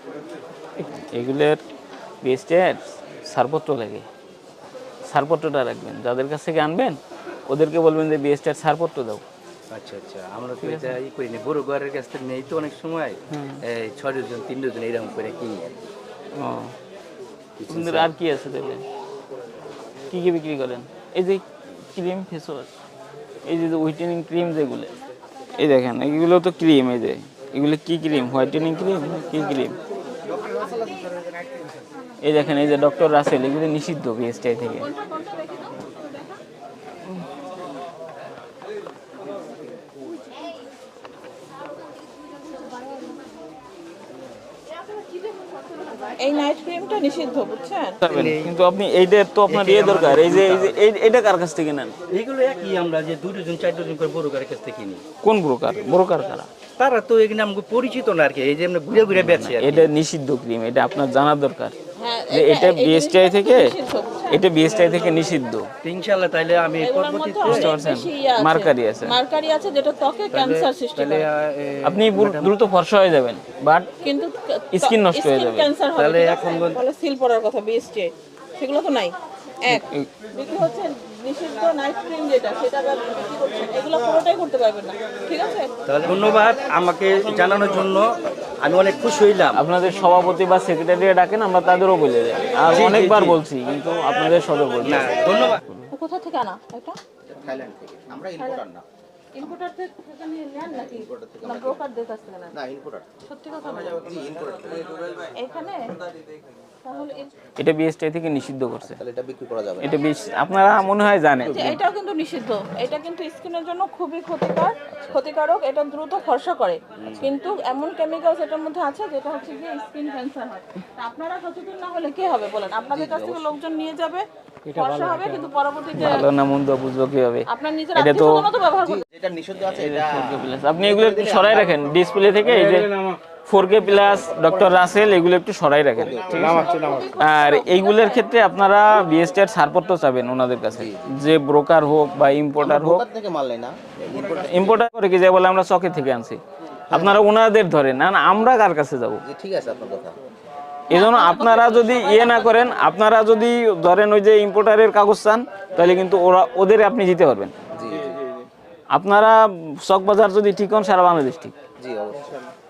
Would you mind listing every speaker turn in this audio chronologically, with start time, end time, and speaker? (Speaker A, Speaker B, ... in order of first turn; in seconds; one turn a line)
Speaker A: 0.8-1.6
Speaker A: 2.2-4.0
Speaker A: 5.0-9.2
Speaker B: 9.7-15.7
Speaker A: 10.6-11.0
Speaker A: 13.3-13.6
Speaker A: 16.3-16.7
Speaker B: 17.6-18.1
Speaker A: 17.7-18.8
Speaker A: 20.1-22.7
Speaker A: 23.4-24.9
Speaker A: 25.6-29.8
Speaker C: 30.1-31.6
Speaker A: 32.2-34.9
Speaker D: 34.8-36.4
Speaker D: 46.0-48.0
Speaker A: 48.0-51.9
Speaker B: 48.0-48.5
Speaker B: 49.5-50.8
Speaker B: 52.1-55.0
Speaker A: 55.2-56.5
Speaker B: 56.8-59.9
Speaker A: 59.1-61.7
Speaker D: 62.0-64.5
Speaker A: 62.3-63.7
Speaker A: 64.3-65.7
Speaker B: 64.5-65.2
Speaker B: 65.8-67.7
Speaker D: 66.8-71.3
Speaker A: 67.4-69.2
Speaker B: 70.3-72.5
Speaker A: 71.8-73.9
Speaker D: 74.0-85.7
Speaker A: 74.7-75.7
Speaker B: 76.0-76.8
Speaker A: 79.7-80.1
Speaker B: 85.8-89.6
Speaker A: 89.5-95.9
Speaker B: 92.6-93.4
Speaker B: 94.8-95.6
Speaker D: 95.9-97.0
Speaker C: 97.3-98.8
Speaker D: 99.3-102.5
Speaker C: 100.7-101.8
Speaker C: 102.5-103.1
Speaker D: 103.2-104.1
Speaker C: 103.9-104.9
Speaker D: 105.3-105.9
Speaker D: 106.8-107.3
Speaker A: 107.6-109.0
Speaker C: 108.8-110.0
Speaker A: 109.8-111.8
Speaker D: 111.4-126.2
Speaker C: 114.9-115.2
Speaker B: 117.0-117.3
Speaker C: 122.9-123.6
Speaker A: 126.0-128.4
Speaker D: 127.5-129.1
Speaker C: 128.8-131.9
Speaker A: 129.7-132.9
Speaker A: 133.4-143.0
Speaker C: 133.9-134.8
Speaker C: 136.0-137.1
Speaker D: 136.3-138.4
Speaker C: 140.7-141.2
Speaker C: 142.6-144.8
Speaker A: 144.4-146.4
Speaker C: 146.9-147.2
Speaker A: 146.9-149.2
Speaker C: 149.2-150.2
Speaker D: 150.9-152.9
Speaker A: 150.9-157.5
Speaker C: 157.7-158.2
Speaker A: 158.9-161.5
Speaker C: 161.8-162.5